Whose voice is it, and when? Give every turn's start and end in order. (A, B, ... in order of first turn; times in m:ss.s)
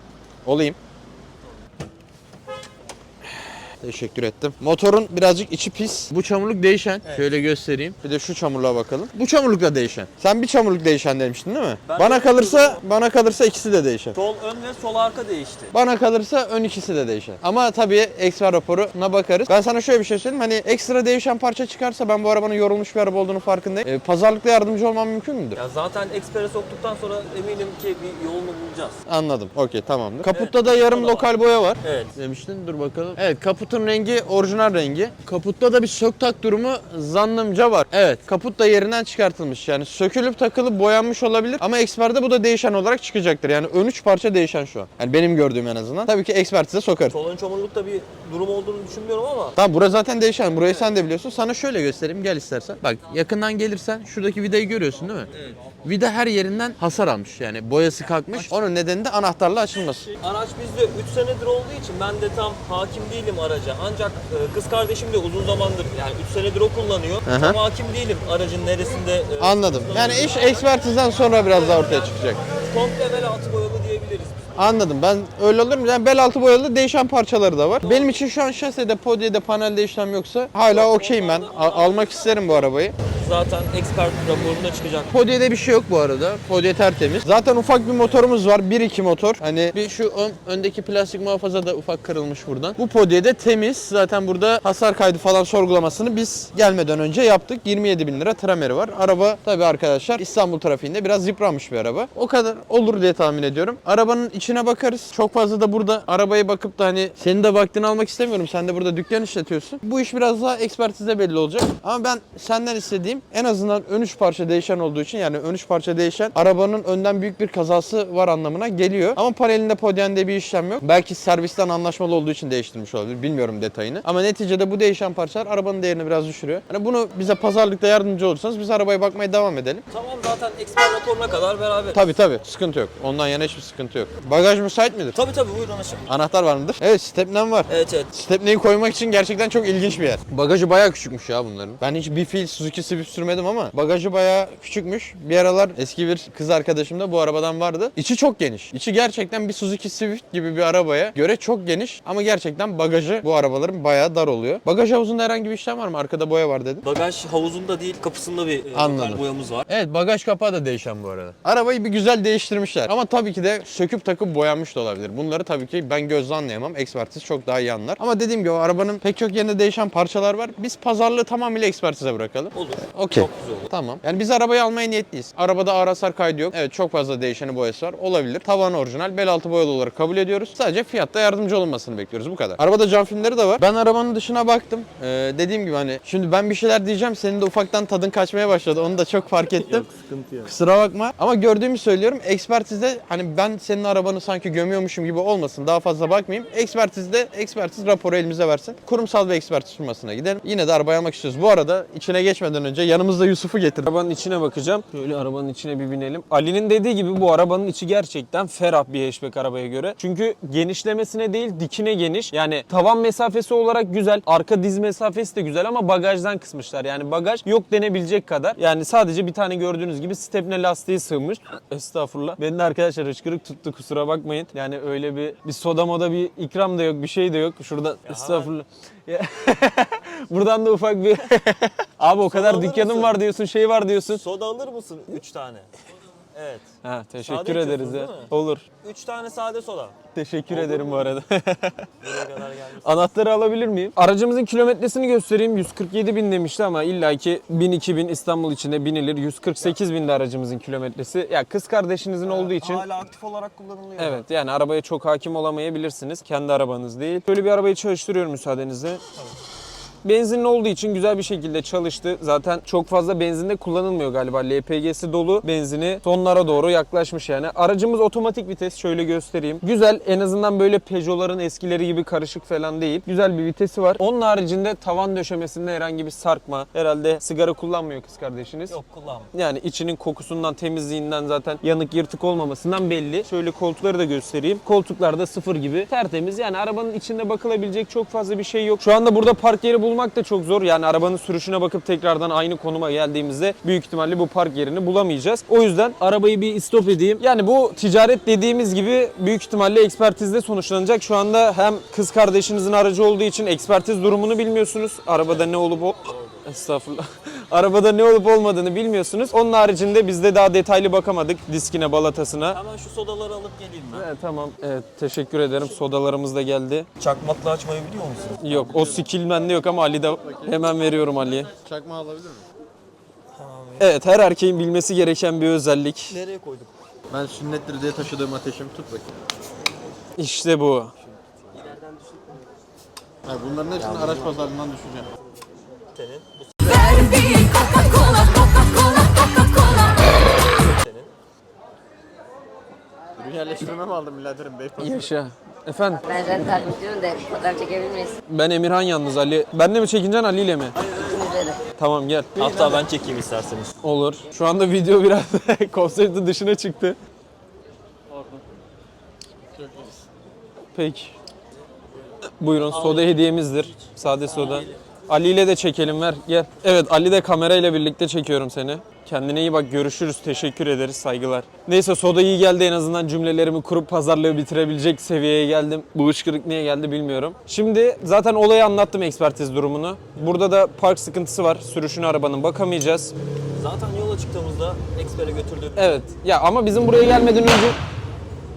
0:00.4-0:00.8 A
0:03.4-0:14.2 A
0:07.0-0:07.3 B
0:11.8-0:12.8 B
0:14.1-0:15.7 B
0:15.7-0:25.6 A
0:25.6-0:29.0 B
0:29.1-0:47.1 A
0:30.2-0:31.3 B
0:31.8-0:32.1 B
0:47.1-0:49.6 B
0:49.6-0:55.3 A
0:55.3-0:55.6 B
0:55.8-1:00.1 A
1:00.2-1:10.7 B
1:07.2-1:07.6 A
1:09.4-1:12.4 A
1:12.3-1:14.6 B
1:14.6-1:22.9 A
1:17.8-1:18.1 B
1:20.7-1:22.6 B
1:23.2-1:25.1 B
1:25.1-2:09.8 A
2:09.9-2:12.0 B
2:11.9-2:15.2 A
2:15.1-2:16.1 B
2:16.1-2:36.8 A
2:17.7-2:18.1 B
2:36.8-2:39.7 B
2:38.7-3:09.8 A
2:52.5-2:53.7 B
3:09.5-3:10.5 B
3:10.4-3:23.9 A
3:23.8-3:54.2 C
3:48.0-3:48.5 B
3:52.2-3:53.2 B
3:54.1-3:55.7 B
3:56.3-3:56.6 B
3:56.8-3:58.6 C
3:57.2-3:58.3 B
3:58.8-4:00.0 B
4:00.1-4:02.1 C
4:00.5-4:01.2 B
4:02.0-4:03.1 B
4:02.8-4:12.8 C
4:12.2-4:14.2 B
4:14.0-4:19.0 C
4:20.0-4:38.8 C
4:38.7-4:39.3 B
4:39.3-5:12.6 C
5:06.0-5:06.4 B
5:12.5-5:14.1 B
5:13.9-5:16.9 C
5:17.0-5:18.4 B
5:18.4-5:21.5 C
5:18.5-5:19.0 A
5:20.2-5:20.8 A
5:21.6-5:22.4 A
5:23.3-5:23.9 B
5:23.8-5:26.2 C
5:26.1-5:26.7 B
5:27.1-5:29.1 A
5:30.2-5:30.9 C
5:33.2-5:35.1 A
5:33.9-5:34.2 B
5:35.9-5:41.1 B
5:43.2-5:45.1 A
5:44.8-5:46.1 C
5:46.1-5:48.2 D
5:48.3-5:50.8 C
5:51.0-5:51.6 D
5:51.8-5:52.8 C
5:52.4-5:53.7 B
5:53.8-5:57.0 C
6:00.7-6:01.1 C
6:02.4-6:23.1 C
6:02.7-6:03.1 B
6:23.5-6:26.0 B
6:25.8-6:27.8 C